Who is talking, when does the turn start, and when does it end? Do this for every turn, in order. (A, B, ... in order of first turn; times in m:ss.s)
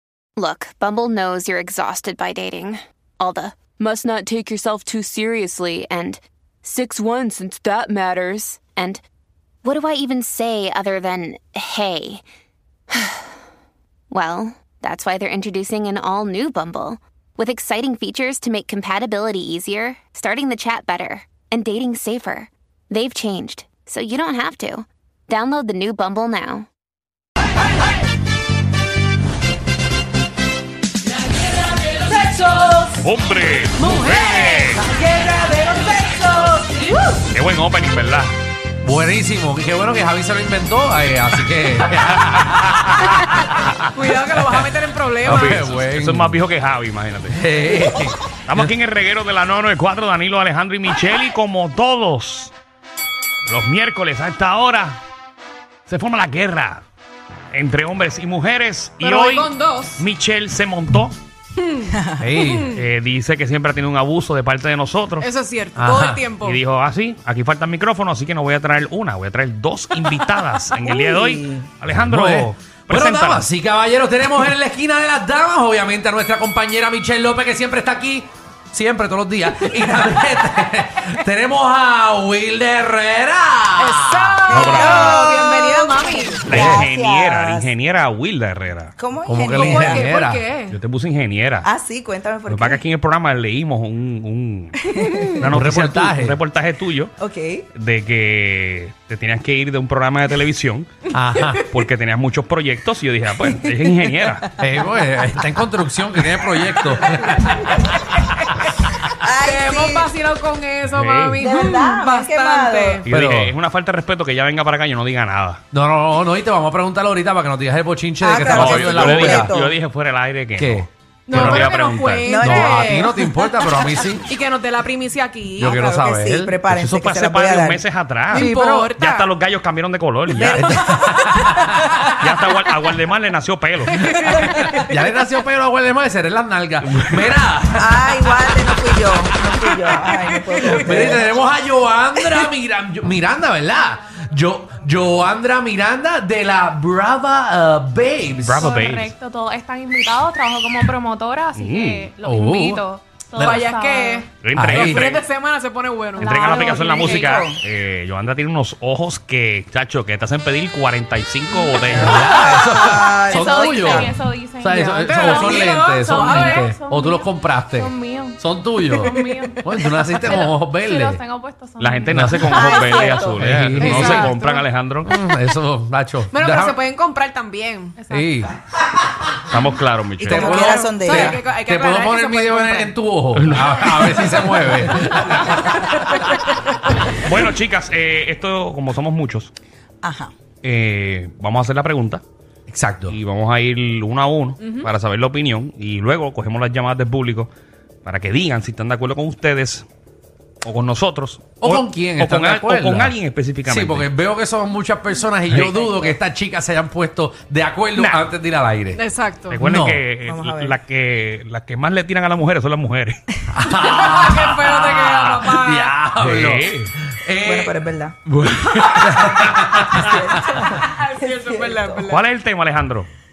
0:00.4-0:09.0 A
0:09.6-0:12.2 A
0:12.9-0:13.3 A
0:14.1-0:26.7 A
0:33.0-0:34.8 B
0:33.8-0:37.0 C
0:37.3-0:38.3 B
0:38.8-0:42.9 D
0:43.9-0:45.6 C
0:44.3-0:44.7 D
0:45.2-0:46.4 D
0:45.2-0:47.4 B
0:47.3-0:48.7 D
0:48.5-0:52.5 B
0:53.5-0:55.0 B
0:55.9-0:56.8 B
0:57.5-1:01.1 B
0:59.0-1:00.0 C
1:01.6-1:02.8 C
1:02.2-1:02.7 D
1:02.7-1:05.2 B
1:05.2-1:06.6 C
1:05.8-1:06.4 D
1:06.4-1:13.5 B
1:10.8-1:11.7 E
1:11.9-1:24.6 D
1:23.8-1:26.5 C
1:24.5-1:25.2 B
1:24.6-1:27.7 E
1:26.5-1:28.9 B
1:26.5-1:26.9 D
1:29.0-1:30.0 E
1:29.2-1:30.5 D
1:29.6-1:30.8 C
1:30.7-1:31.7 B
1:31.6-1:32.8 E
1:32.5-1:34.8 B
1:34.8-1:35.5 E
1:35.3-1:37.1 B
1:35.4-1:36.4 D
1:37.2-1:37.7 E
1:37.7-1:40.9 B
1:41.1-1:41.7 D
1:41.6-1:44.5 B
1:43.5-1:44.3 E
1:44.6-1:48.0 D
1:47.0-1:48.6 C
1:49.2-1:50.1 E
1:49.4-1:53.0 C
1:50.8-1:51.4 B
1:51.4-1:53.1 E
1:53.1-1:53.5 D
1:53.1-1:55.6 B
1:55.7-1:59.6 D
1:58.2-1:59.7 E
1:58.4-2:02.4 B
2:00.6-2:00.9 D
2:01.3-2:05.8 C
2:02.2-2:02.9 E
2:02.3-2:04.2 D
2:05.6-2:06.6 D
2:05.6-2:07.8 E
2:06.7-2:10.7 B
2:08.3-2:09.3 C
2:10.3-2:11.4 E
2:10.7-2:11.6 D
2:12.2-2:14.5 B
2:14.0-2:14.9 C
2:14.7-2:20.0 D
2:17.8-2:21.4 E
2:20.1-2:21.2 C
2:20.6-2:28.7 D
2:28.4-2:29.1 B
2:28.6-2:34.2 F
2:31.5-2:32.1 B
2:32.2-2:32.8 D
2:33.4-2:33.7 D
2:33.4-2:36.9 C
2:34.3-2:35.1 B
2:34.5-2:35.2 D
2:36.2-2:42.2 B
2:36.2-2:37.4 F
2:36.2-2:37.6 E
2:41.8-2:51.2 D
2:42.1-2:44.1 E
2:42.1-2:49.6 F
2:45.0-2:46.7 C
2:49.5-2:50.1 C
2:50.2-2:53.0 F
2:51.8-2:55.1 B
2:52.1-2:52.6 D
2:52.4-2:53.5 E
2:53.3-2:54.4 D
2:53.8-2:54.3 C
2:54.4-2:54.7 F
2:55.0-2:56.8 D
2:56.3-2:58.0 C
2:58.0-2:58.4 F
2:58.1-2:58.5 D
2:59.5-3:00.4 B
3:00.2-3:01.4 E
3:00.2-3:06.0 D
3:00.4-3:03.0 C
3:03.3-3:04.7 B
3:04.2-3:04.6 C
3:05.4-3:06.5 C
3:07.2-3:09.5 B
3:10.0-3:10.3 E
3:10.6-3:12.2 B
3:12.7-3:13.2 D
3:13.1-3:17.5 B
3:14.6-3:14.9 C
3:18.0-3:19.9 B
3:20.6-3:24.1 B
3:21.6-3:29.0 D
3:25.5-3:25.8 B
3:25.8-3:26.1 E
3:28.0-3:28.3 B
3:28.9-3:29.6 C
3:29.5-3:33.3 B
3:29.6-3:30.1 D
3:30.2-3:30.7 E
3:33.5-3:40.6 D
3:33.6-3:36.0 C
3:36.2-3:36.8 B
3:37.4-3:38.2 E
3:40.0-3:42.1 E
3:40.6-3:42.2 C
3:42.0-3:43.1 B